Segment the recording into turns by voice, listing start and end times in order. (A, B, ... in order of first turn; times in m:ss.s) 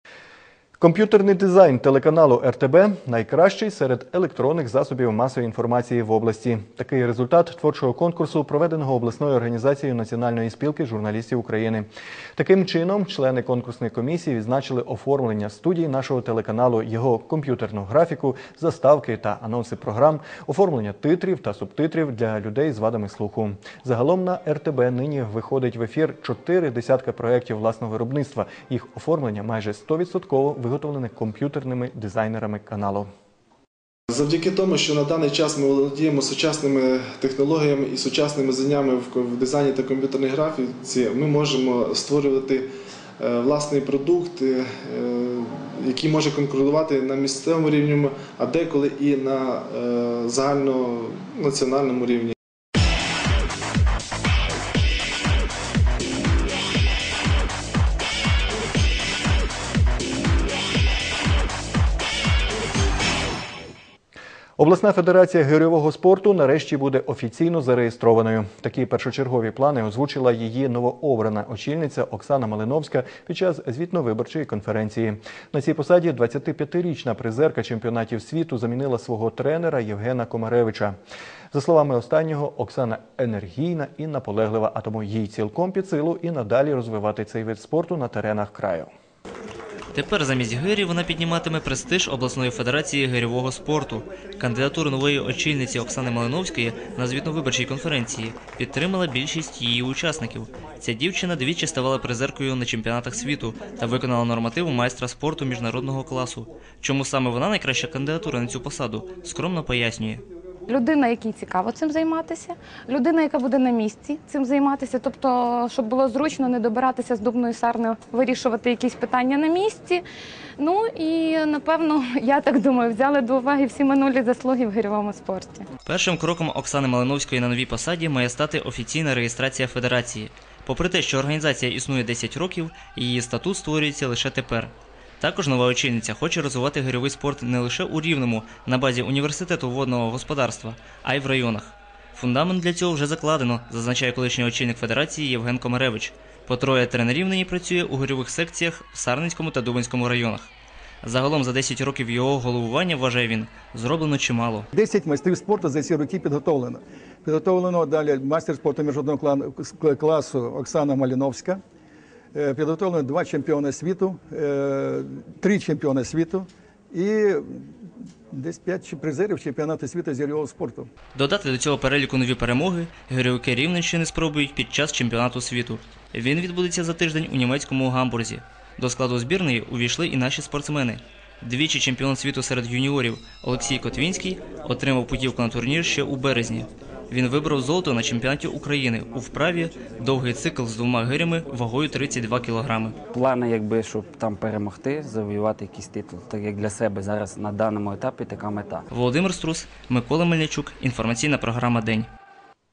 0:00.8-0:33.1 A
0:34.1-0:42.6 B
0:43.2-0:52.4 B
1:04.6-1:21.0 A
1:21.5-1:28.9 A
1:29.9-1:50.2 C
1:50.7-2:00.0 D
2:00.6-2:05.6 D
2:05.9-2:30.5 C
2:31.0-2:34.7 C
2:34.7-2:41.6 E
2:42.3-2:47.8 E
2:48.3-2:50.9 E
2:51.2-3:13.0 C
3:13.1-3:18.8 F
3:18.9-3:22.1 C